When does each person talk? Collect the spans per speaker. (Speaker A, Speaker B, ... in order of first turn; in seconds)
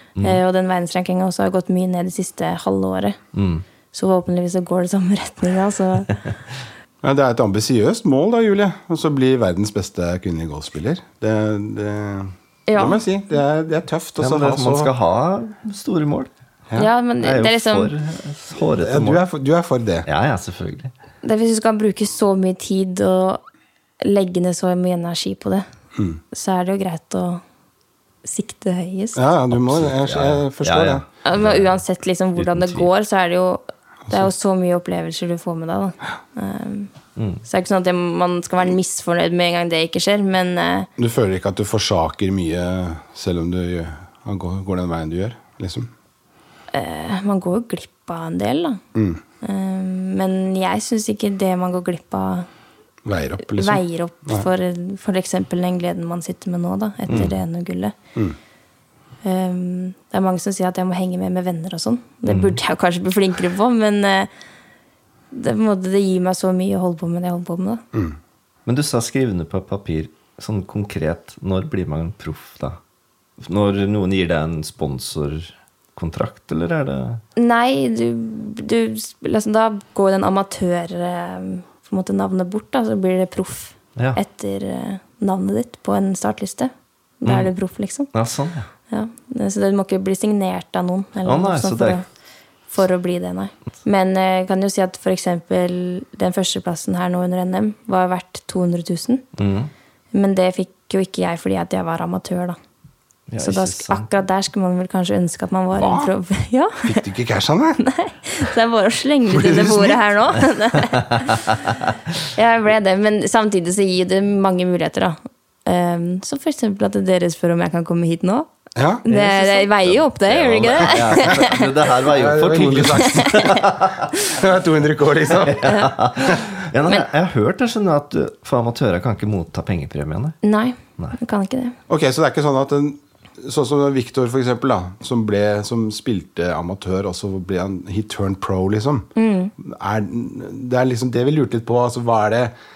Speaker A: 0.2-3.2, 3.9-6.2, 12.7-13.0, 16.8-17.9, 21.2-23.4, 24.0-25.6, 26.3-27.4, 28.2-29.2, 31.2-36.9, 37.4-40.9, 46.7-48.8, 49.4-52.5, 53.4-57.9, 59.2-64.3, 65.3-67.8, 77.3-88.1, 88.9-92.0, 92.7-99.2, 100.1-102.5, 103.4-106.9, 107.8-111.5, 112.3-118.5, 119.0-121.7, 123.0-123.6, 125.6-125.9, 130.4-131.8, 139.1-139.5
Speaker B: 3.3-3.6, 14.2-16.3, 17.2-19.2, 20.1-20.9, 29.5-31.7, 32.4-32.9, 37.1-37.4, 57.1-57.3, 62.3-62.6, 68.7-72.8, 73.4-77.2, 87.2-87.5, 88.1-88.7, 91.2-92.0, 99.4-99.7, 103.3-104.1, 110.9-111.3, 119.1-124.1, 125.4-130.4
Speaker C: 7.0-14.9, 18.8-20.1, 25.9-26.2, 29.1-31.0, 41.0-45.9, 48.9-49.2, 53.0-54.5, 105.8-106.1, 106.8-107.8, 109.3-110.0, 118.8-119.0, 120.8-123.5, 124.2-125.8, 131.9-142.5